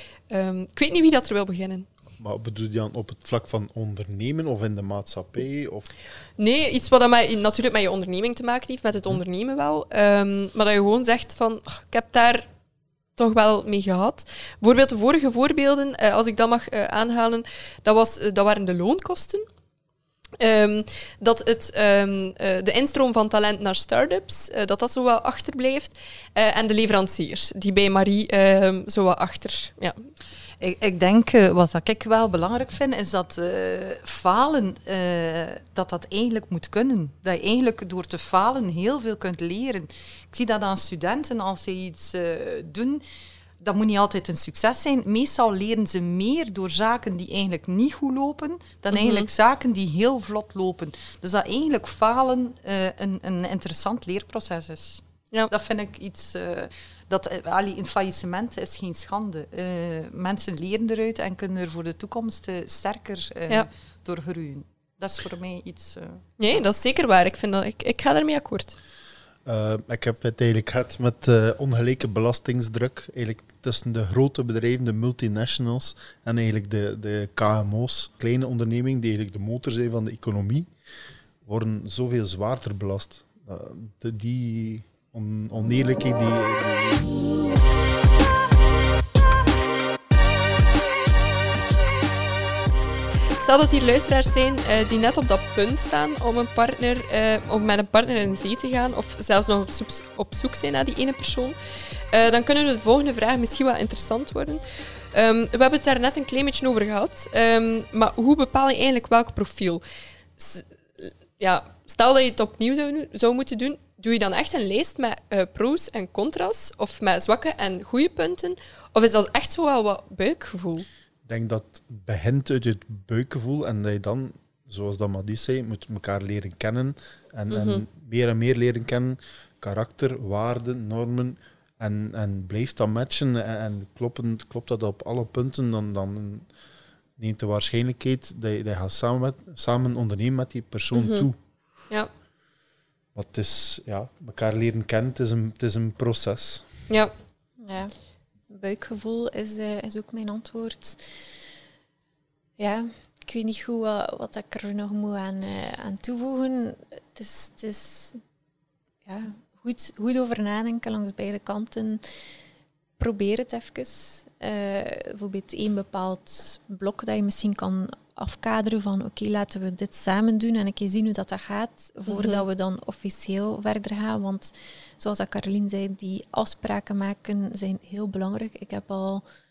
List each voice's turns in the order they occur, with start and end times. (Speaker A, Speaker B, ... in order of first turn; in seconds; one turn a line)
Speaker A: 0.3-1.9
Speaker B: 2.2-5.9
Speaker A: 6.4-12.5
Speaker A: 13.2-19.5
Speaker A: 20.4-30.1
Speaker C: 30.6-43.0
Speaker C: 43.6-66.2
Speaker A: 48.9-49.3
Speaker A: 66.4-68.8
Speaker B: 69.5-80.7
Speaker B: 81.4-87.0
Speaker A: 93.4-101.6
Speaker A: 102.1-104.6
Speaker A: 105.1-109.8
Speaker A: 110.4-120.9
Speaker B: 121.3-136.5
Speaker A: 127.5-127.8
Speaker B: 137.2-141.4
Speaker A: 140.9-141.3
Speaker B: 143.2-146.7
Speaker D: 147.6-147.9
Speaker D: 148.5-151.0
Speaker D: 152.6-158.2
Speaker D: 159.1-162.0
Speaker D: 163.0-179.2
Speaker A: 172.1-172.4